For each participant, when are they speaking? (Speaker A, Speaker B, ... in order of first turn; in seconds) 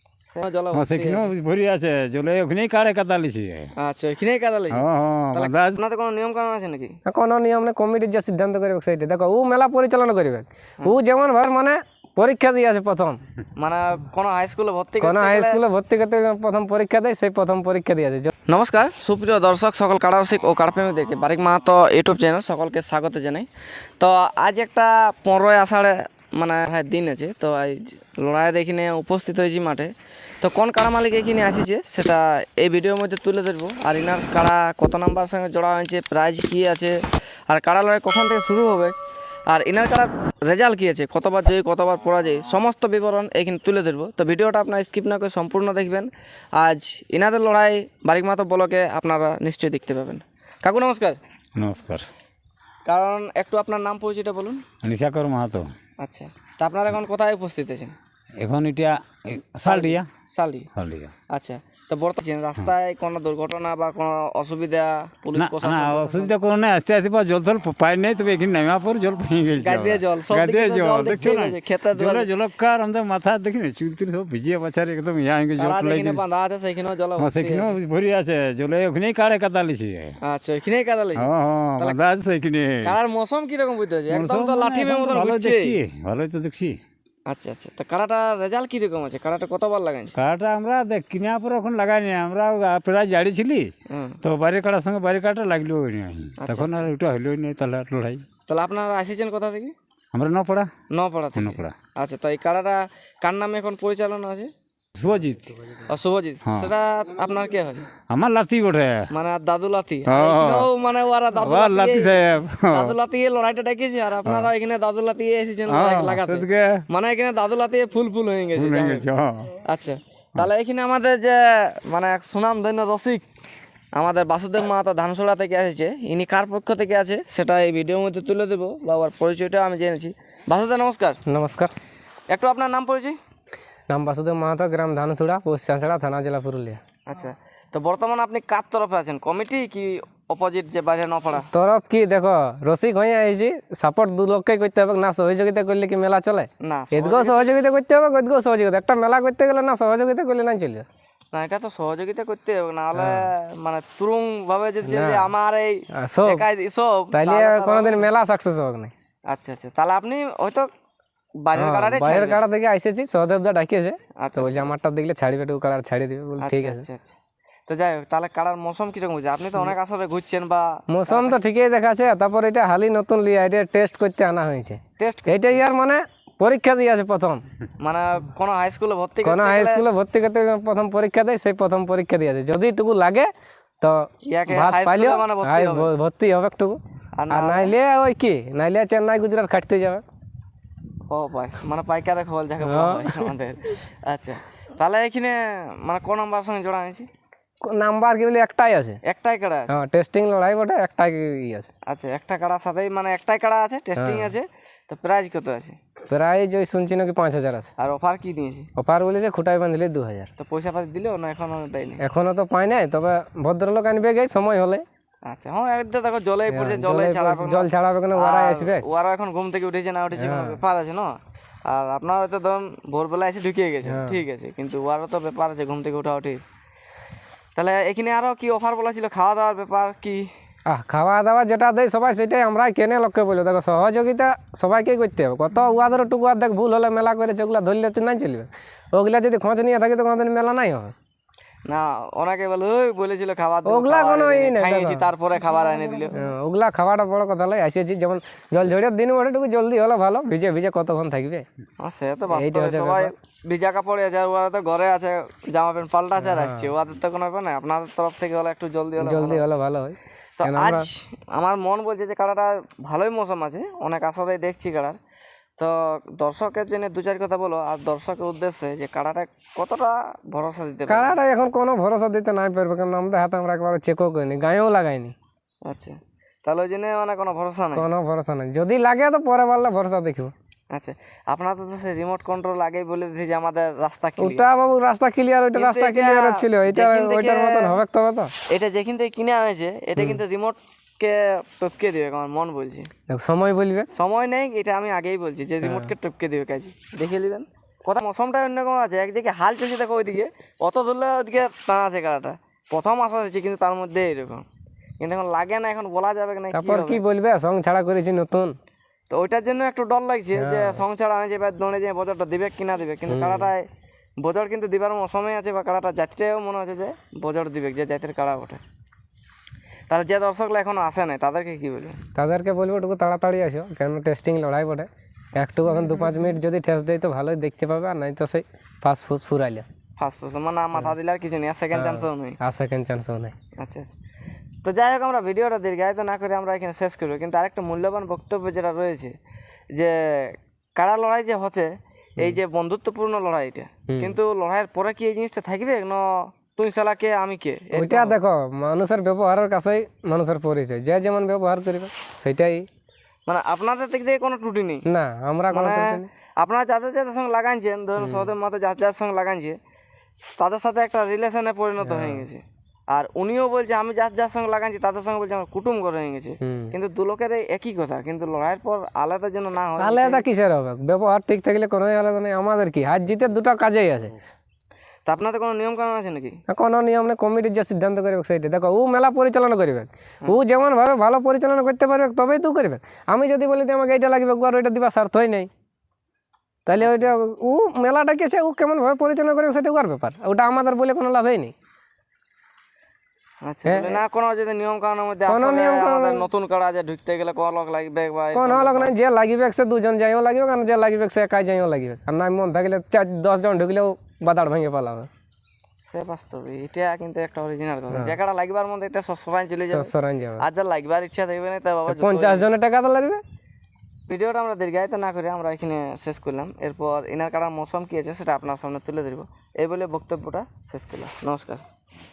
Speaker A: 0.3-1.3, 3.8-4.8, 5.3-7.0, 13.6-15.6, 18.5-23.5, 24.0-29.9, 30.4-37.0, 37.5-38.9, 39.5-51.2, 52.9-54.6, 56.0-57.9, 59.7-60.7, 61.3-66.3, 69.6-72.3, 75.6-77.8, 80.2-81.3, 82.8-85.8, 87.3-90.2, 93.9-94.2, 96.4-96.9, 98.5-99.7, 100.9-104.5, 105.9-107.9, 109.1-119.1, 119.7-123.2, 124.0-131.2, 132.3-133.2, 137.1-141.5, 146.6-147.5, 151.3-158.1, 159.3-160.7, 161.4-162.4, 164.2-164.7, 166.4-167.2, 167.7-171.4, 175.0-175.6, 177.8-179.8, 184.3-185.9, 187.2-187.7, 191.1-197.1, 199.1-199.7, 201.9-205.8, 207.8-208.7, 210.4-212.0, 215.3-221.2, 221.7-226.4, 227.6-230.3, 241.7-246.1, 251.8-259.5, 260.4-265.0, 265.6-271.2, 275.6-277.9, 280.7-284.5, 285.6-287.8, 288.5-292.9, 293.9-304.4, 305.0-307.0, 309.1-313.7, 314.2-318.6, 319.9-322.0, 330.0-332.4, 333.6-333.9, 334.6-339.1, 339.8-348.2, 353.3-354.8, 355.5-359.6, 360.4-370.2, 375.1-376.4, 386.8-387.1, 393.4-398.9, 405.9-412.5, 414.1-421.6
Speaker B: 0.7-3.7, 4.7-5.8, 51.6-52.0, 54.8-55.7, 58.4-60.1, 60.8-61.1, 65.4-76.2, 77.2-80.2, 81.2-82.9, 84.1-86.8, 90.2-93.7, 94.2-98.2, 100.1-100.7, 101.4-101.8, 105.0-105.5, 106.5-106.7, 108.1-109.1, 110.1-110.7, 111.4-113.0, 114.2-114.5, 115.7-116.8, 118.5-119.5
Speaker C: 7.1-13.2, 15.0-18.3, 131.2-131.7, 133.9-136.8, 141.5-150.9, 152.9-153.3, 154.8-155.3, 155.9-156.4, 157.1-158.9, 161.6-166.8, 170.9-177.4, 179.2-183.3, 183.8-186.8, 187.3-190.0, 192.6-193.3, 197.7-199.0, 199.7-201.7, 204.0-204.3, 206.1-207.7, 208.8-210.3, 212.0-214.8, 216.5-218.8, 220.2-220.6, 223.9-224.2, 230.7-240.9, 243.7-245.1, 246.2-251.5, 252.3-253.1, 256.2-256.7, 259.0-260.9, 270.9-275.1, 277.8-280.3, 284.2-288.3, 293.1-293.9, 295.6-295.9, 306.5-308.6, 310.4-310.8, 313.1-313.5, 322.2-329.7, 331.7-333.4, 343.9-344.2, 347.7-352.7, 354.9-356.1, 358.0-358.3, 361.8-362.2, 366.4-366.7, 369.8-374.1, 376.5-385.5, 386.7-391.6, 393.6-394.0, 395.3-396.2, 398.3-405.1, 409.7-410.4, 411.9-413.2